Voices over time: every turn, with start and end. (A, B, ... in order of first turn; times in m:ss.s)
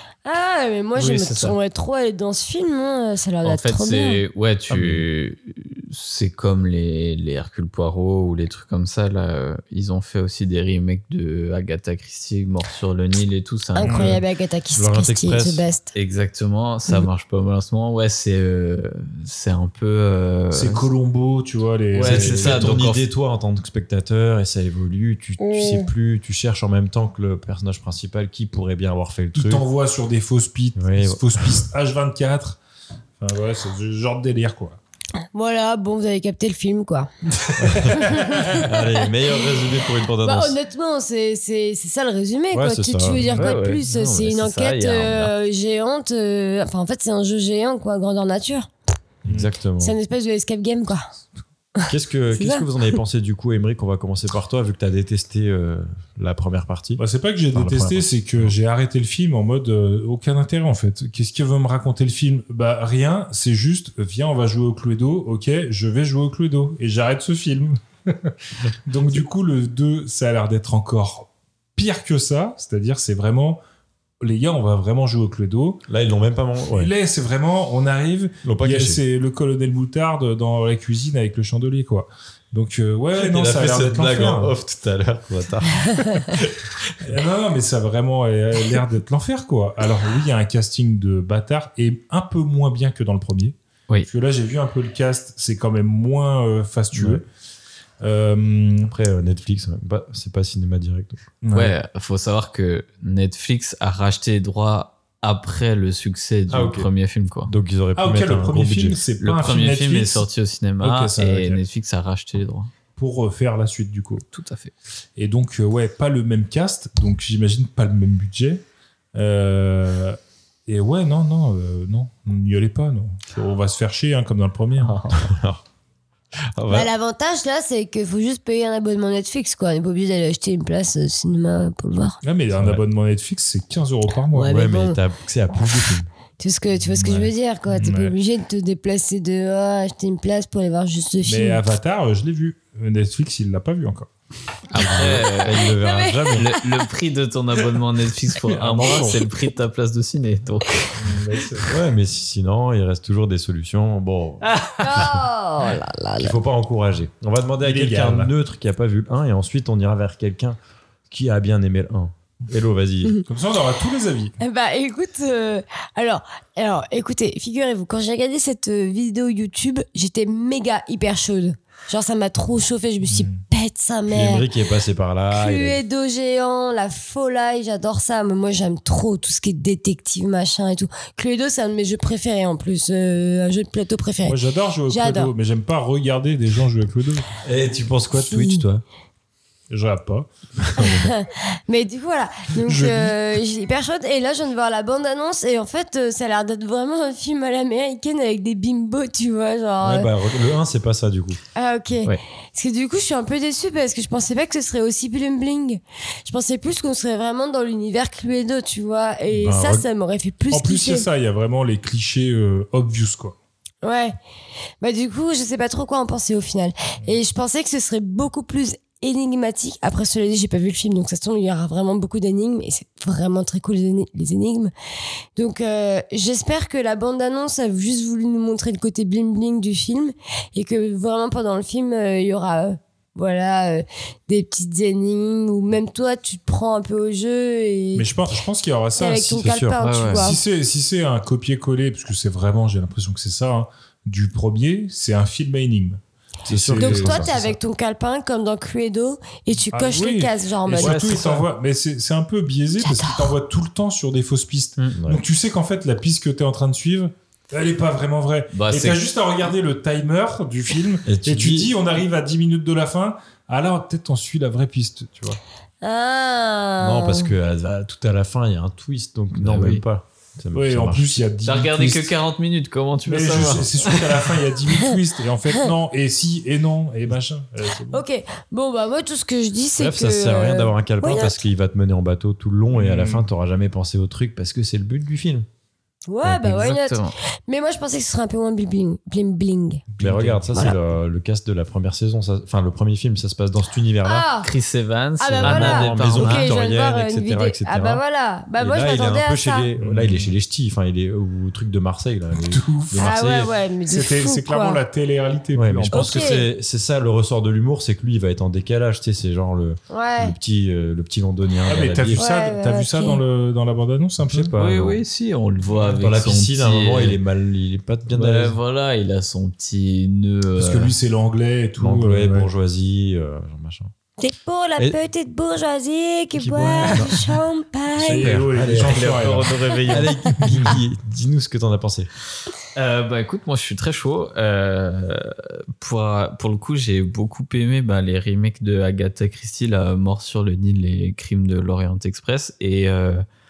0:00.2-0:04.2 A
0:01.0-0:01.6 B
0:03.4-0:14.1 B
0:04.7-0:05.0 C
0:13.8-0:15.9 A
0:13.8-0:14.2 D
0:14.7-0:15.6 C
0:15.9-0:20.8 B
0:20.5-0:22.7 D
0:21.9-0:23.0 B
0:22.0-0:29.6 C
0:25.4-0:25.9 A
0:29.3-0:32.6 D
0:30.8-0:31.6 C
0:33.2-0:34.8 D
0:35.3-0:37.1 A
0:37.4-0:38.6 D
0:37.6-0:40.6 C
0:37.9-0:39.1 A
0:40.2-0:48.7 A
0:42.5-0:43.3 C
0:43.2-0:43.5 D
0:43.3-0:45.3 B
0:49.2-0:49.5 D
0:49.2-0:50.0 C
0:49.8-0:51.0 A
0:51.8-0:52.6 A
0:51.9-0:57.0 C
0:57.0-1:08.3 D
0:57.5-0:58.5 C
1:08.8-1:13.6 D
1:14.2-1:15.8 D
1:15.9-1:16.9 C
1:16.7-1:24.5 D
1:18.4-1:19.0 C
1:23.1-1:27.1 C
1:27.0-1:37.3 D
1:36.9-1:37.2 C
1:38.0-1:38.9 D
1:38.9-1:41.2 C
1:41.4-1:41.7 D
1:41.5-1:47.5 B
1:46.5-1:46.9 C
1:47.4-1:49.0 C
1:48.0-1:50.3 D
1:49.2-1:52.7 B
1:50.8-1:51.6 D
1:53.0-1:54.2 D
1:54.3-1:54.7 B
1:55.2-1:58.6 D
1:59.1-2:05.0 D
2:04.8-2:05.3 B
2:05.1-2:05.6 C
2:06.5-2:06.9 C
2:06.7-2:12.2 A
2:12.2-2:14.6 D
2:12.6-2:12.8 C
2:14.3-2:15.0 A
2:14.4-2:16.1 C
2:16.4-2:21.6 A
2:16.8-2:18.1 D
2:21.2-2:24.1 D
2:24.7-2:25.7 B
2:24.7-2:25.2 D
2:24.8-2:26.5 C
2:25.6-2:26.6 A
2:26.4-2:30.9 B
2:28.4-2:29.2 D
2:31.0-2:31.8 D
2:31.7-2:35.1 C
2:34.4-2:35.1 B
2:34.8-2:36.4 A
2:36.2-2:40.6 C
2:37.6-2:38.3 D
2:41.1-2:43.1 C
2:43.2-2:44.4 D
2:44.4-2:54.4 A
2:53.1-2:53.4 D
2:54.1-2:55.8 C
2:55.3-3:04.4 A
3:04.2-3:07.3 D
3:04.9-3:05.3 A
3:07.4-3:08.8 C
3:08.1-3:08.6 A
3:09.7-3:10.3 D
3:10.7-3:11.1 C
3:10.8-3:20.1 A
3:12.6-3:13.2 D
3:19.8-3:21.4 C
3:21.5-3:31.0 A
3:29.3-3:29.8 C
3:30.5-3:33.4 D
3:33.8-3:34.2 A
3:34.8-3:44.7 A
3:45.4-3:58.2 A
3:57.9-3:59.5 D
3:59.0-4:00.4 A
3:59.4-3:59.8 C
3:59.8-4:00.3 B
4:00.2-4:07.6 D
4:06.4-4:07.3 C
4:06.8-4:11.2 A
4:09.7-4:25.4 D
4:10.8-4:11.4 B
4:12.8-4:13.2 A
4:15.0-4:15.2 C
4:18.5-4:19.0 B
4:21.0-4:21.7 C
4:25.8-4:27.3 A
4:26.8-4:31.2 C
4:29.3-4:29.8 B
4:30.5-4:32.1 D
4:31.4-4:34.3 B
4:33.0-4:38.0 D
4:37.9-4:41.4 A
4:39.8-4:45.5 C
4:42.7-4:43.2 D
4:46.1-4:49.8 A
4:46.2-4:47.1 B
4:49.9-4:50.8 D
4:50.0-4:54.3 C
4:54.0-4:54.5 A
4:54.4-4:56.5 B
4:55.2-4:59.7 A
4:55.4-4:58.0 C
4:58.6-5:03.5 C
4:59.8-5:00.3 D
5:02.4-5:03.1 D
5:03.0-5:04.8 A
5:03.9-5:06.3 D
5:05.5-5:12.3 C
5:05.9-5:06.4 A
5:09.9-5:10.3 A
5:11.6-5:14.5 D
5:12.2-5:13.2 A
5:14.2-5:15.0 C
5:14.6-5:17.2 B
5:15.7-5:18.6 C
5:18.1-5:20.9 B
5:20.6-5:22.5 D
5:21.8-5:23.9 C
5:24.2-5:28.3 A
5:26.3-5:27.4 C
5:27.9-5:32.1 C
5:28.0-5:30.7 D
5:28.7-5:30.0 B
5:32.7-5:43.2 B